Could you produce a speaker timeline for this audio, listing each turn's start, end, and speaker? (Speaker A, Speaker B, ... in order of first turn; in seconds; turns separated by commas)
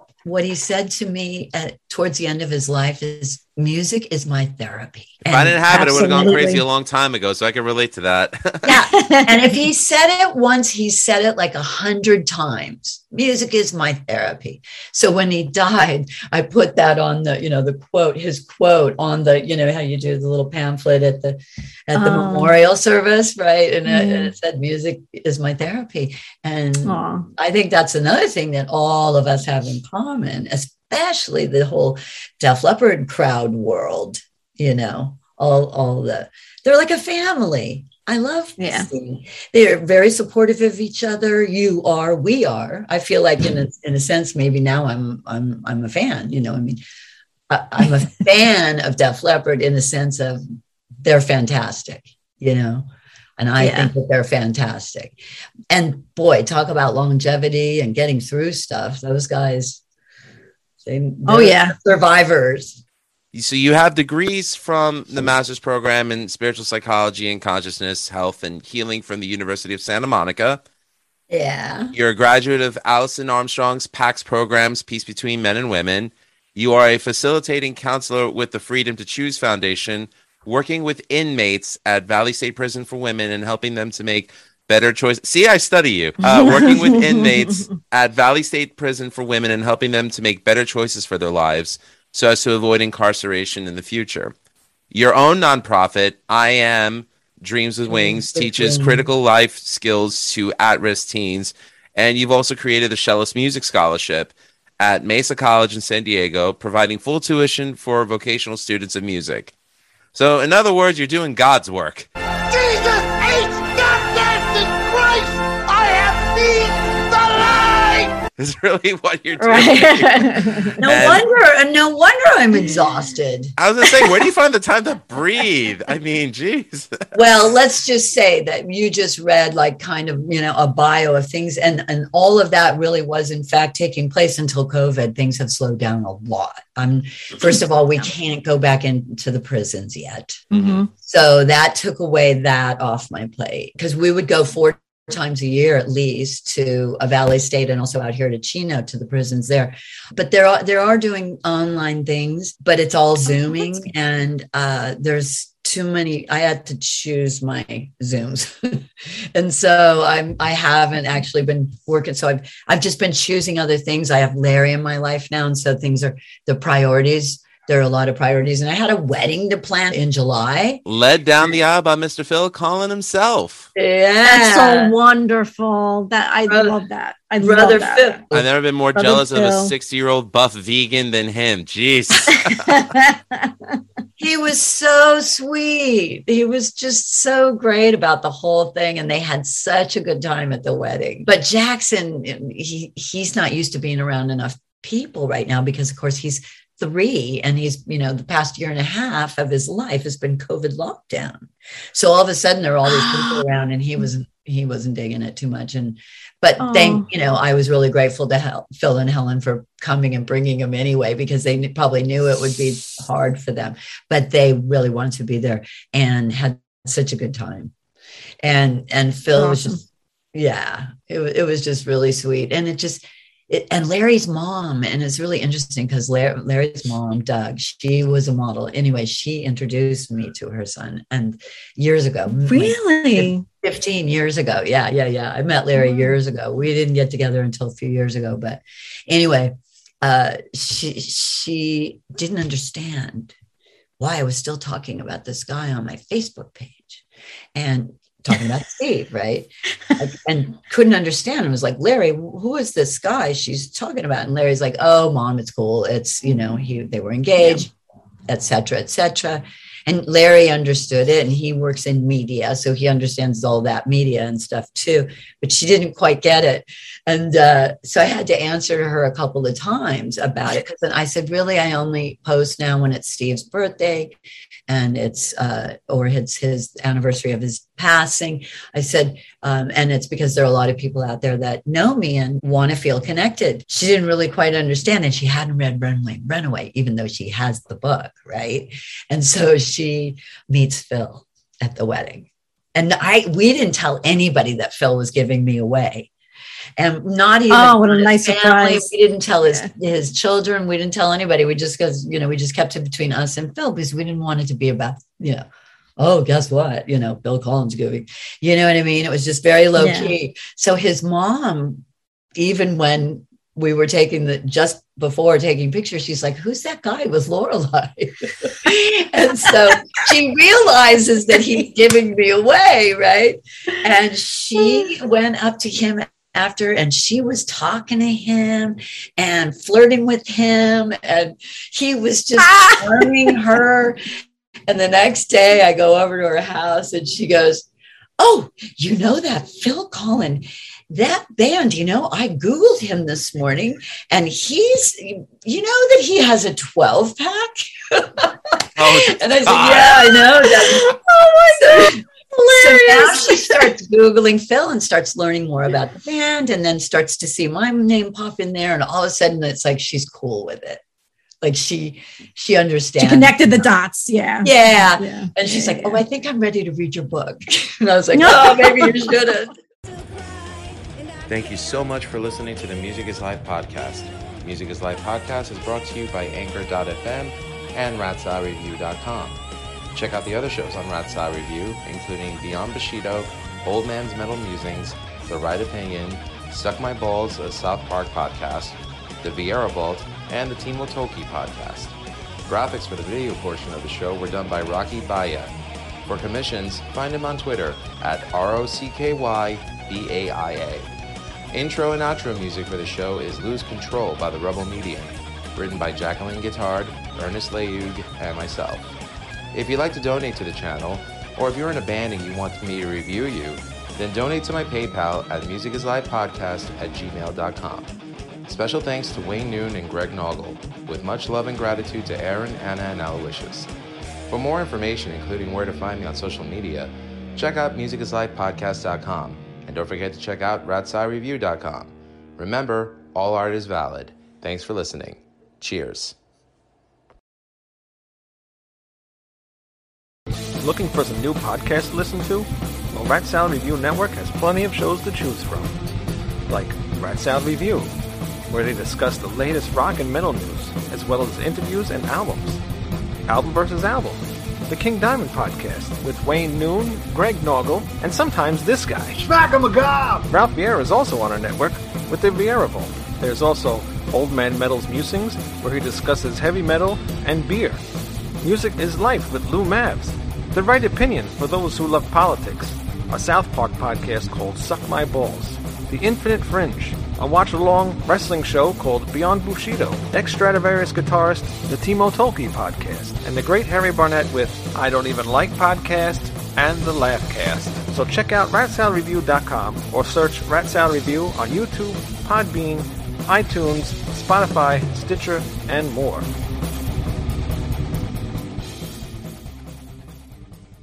Speaker A: 0.2-6.5, Speaker B: 5.3-8.7, Speaker C: 5.7-6.6, Speaker A: 8.6-46.8, Speaker C: 8.9-9.4, Speaker C: 21.9-22.5, Speaker C: 23.9-24.3, Speaker C: 26.9-27.3, Speaker C: 38.6-38.9, Speaker A: 47.5-50.4, Speaker A: 51.0-52.9, Speaker A: 53.4-55.2, Speaker C: 53.6-53.9, Speaker A: 55.7-59.8, Speaker A: 60.8-62.8, Speaker C: 61.3-61.8, Speaker B: 63.3-70.6, Speaker A: 71.3-71.9, Speaker B: 71.9-94.3, Speaker C: 86.2-87.5, Speaker B: 94.9-109.5, Speaker A: 97.9-99.1, Speaker B: 110.1-112.1, Speaker D: 112.5-118.2, Speaker B: 118.4-121.2, Speaker C: 119.4-120.8, Speaker A: 120.8-123.5, Speaker B: 123.6-127.1, Speaker A: 127.1-140.4, Speaker B: 140.5-140.8, Speaker C: 140.5-140.9, Speaker A: 141.0-170.8, Speaker B: 170.9-173.7, Speaker A: 173.8-174.9, Speaker C: 174.2-178.2, Speaker A: 176.5-176.8, Speaker A: 177.4-178.5, Speaker B: 178.3-182.8, Speaker C: 178.9-179.7, Speaker C: 182.3-183.8, Speaker A: 184.2-217.7, Speaker C: 202.9-203.4, Speaker C: 206.6-207.1, Speaker A: 218.4-243.3, Speaker C: 219.4-219.8, Speaker C: 232.5-233.4, Speaker A: 244.0-247.0, Speaker A: 247.6-257.7, Speaker A: 258.3-296.1, Speaker A: 296.8-305.4, Speaker C: 297.5-298.9, Speaker A: 306.0-311.8, Speaker C: 309.8-310.1, Speaker A: 312.4-334.0, Speaker A: 334.7-337.7, Speaker A: 338.2-350.9, Speaker B: 348.8-350.1, Speaker C: 350.5-353.7, Speaker A: 351.6-360.8, Speaker A: 361.4-363.7, Speaker C: 363.0-366.0, Speaker A: 364.4-369.5, Speaker C: 368.1-369.3, Speaker B: 371.3-379.4, Speaker B: 379.9-391.9, Speaker B: 392.5-395.5, Speaker B: 396.1-400.9, Speaker B: 401.5-408.9, Speaker B: 409.5-417.9, Speaker B: 418.5-423.7, Speaker B: 424.3-436.2, Speaker E: 440.6-445.8, Speaker E: 446.5-447.9, Speaker E: 448.5-452.6, Speaker E: 453.3-459.3, Speaker D: 459.2-460.3, Speaker E: 460.3-467.8, Speaker E: 468.4-496.3